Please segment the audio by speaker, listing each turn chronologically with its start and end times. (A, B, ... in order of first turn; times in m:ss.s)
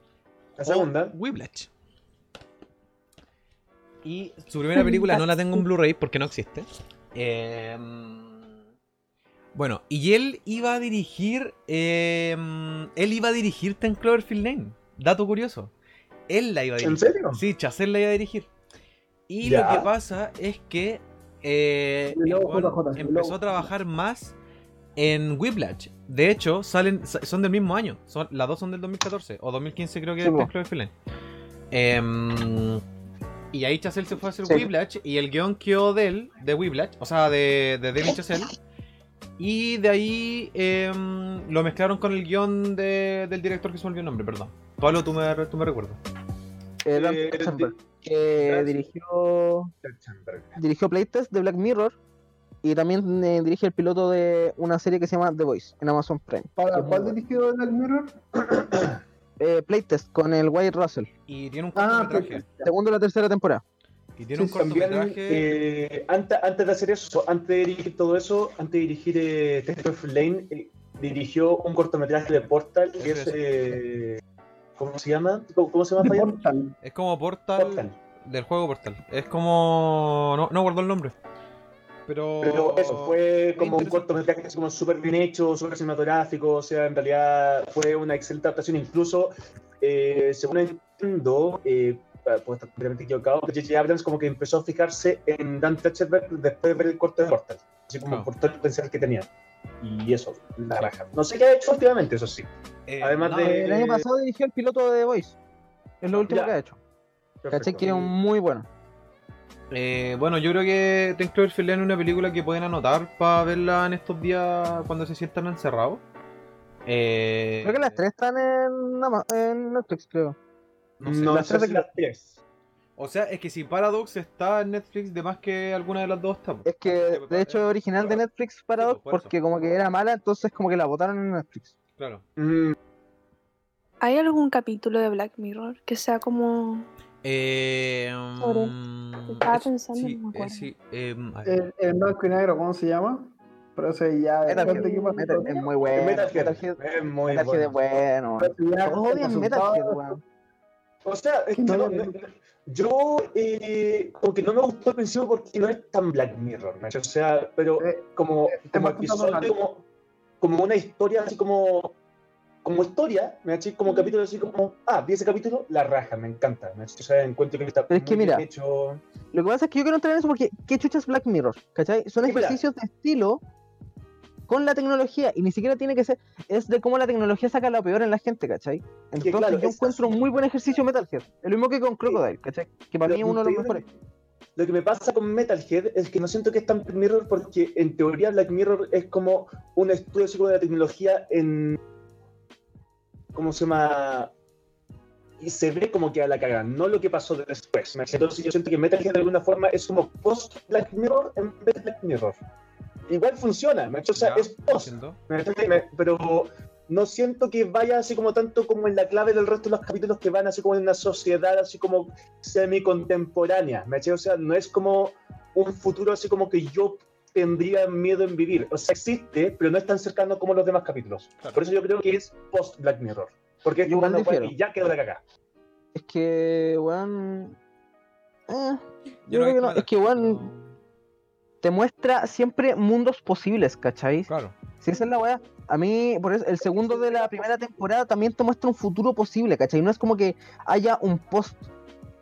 0:00.6-0:01.1 A
0:00.6-0:01.7 B
0:04.0-0:08.6 B
0:09.5-0:15.7 B
0:16.3-0:18.5 B
0:16.8-0:17.4 A
0:19.3-0:24.3 B
0:19.4-0:19.9 A
0:22.1-0:23.7 C
0:25.0-0:30.9 B
0:30.2-0:30.5 D
0:31.7-0:32.8 B
0:33.5-0:38.5 B
0:39.4-0:46.0 B
0:46.8-0:49.7 D
0:46.9-0:47.8 A
0:48.4-0:48.8 A
0:49.8-0:50.6 A
0:50.6-0:52.0 D
0:52.6-0:56.5 D
0:56.6-0:58.2 C
0:56.8-0:57.1 A
0:58.4-0:59.0 A
0:59.4-1:01.1 D
1:01.3-1:02.4 B
1:01.7-1:02.7 C
1:02.6-1:03.6 D
1:04.2-1:05.6 B
1:04.3-1:04.6 C
1:04.6-1:14.2 A
1:13.0-1:13.4 B
1:14.8-1:16.4 A
1:16.0-1:16.8 C
1:16.8-1:21.1 B
1:17.6-1:17.9 A
1:22.1-1:23.2 B
1:22.4-1:39.3 A
1:39.8-1:42.5 A
1:42.9-1:43.7 B
1:43.0-1:44.0 A
1:43.4-1:45.4 D
1:46.0-1:46.8 D
1:46.1-1:46.6 A
1:47.4-1:48.1 A
1:47.5-1:48.7 D
1:49.7-1:56.0 B
1:56.8-1:58.0 B
1:57.6-2:00.4 D
2:01.0-2:01.6 B
2:01.0-2:02.4 A
2:01.4-2:01.8 D
2:03.0-2:07.7 B
2:06.6-2:11.7 D
2:08.8-2:09.3 B
2:12.0-2:12.2 B
2:12.4-2:12.8 A
2:14.0-2:16.9 E
2:17.2-2:21.6 B
2:18.4-2:18.7 E
2:19.2-2:20.7 E
2:21.4-2:25.7 C
2:24.4-2:30.2 D
2:24.6-2:25.4 E
2:25.9-2:27.8 A
2:28.4-2:30.2 C
2:31.0-2:39.8 A
2:31.5-2:32.2 C
2:37.8-2:39.5 C
2:40.4-2:41.9 A
2:42.6-2:49.0 A
2:47.9-2:48.4 D
2:49.3-2:53.4 D
2:52.2-2:52.6 A
2:54.5-3:03.8 D
2:59.2-3:00.3 A
3:03.0-3:03.9 A
3:04.6-3:11.8 A
3:13.3-3:14.3 A
3:15.4-3:22.4 A
3:23.1-3:45.2 A
3:24.1-3:25.2 B
3:43.8-3:44.5 D
3:45.9-3:47.6 D
3:48.5-3:50.5 D
3:49.3-3:50.8 B
3:51.6-3:54.3 D
3:54.3-3:54.5 B
3:54.8-4:01.6 D
3:56.7-3:57.5 A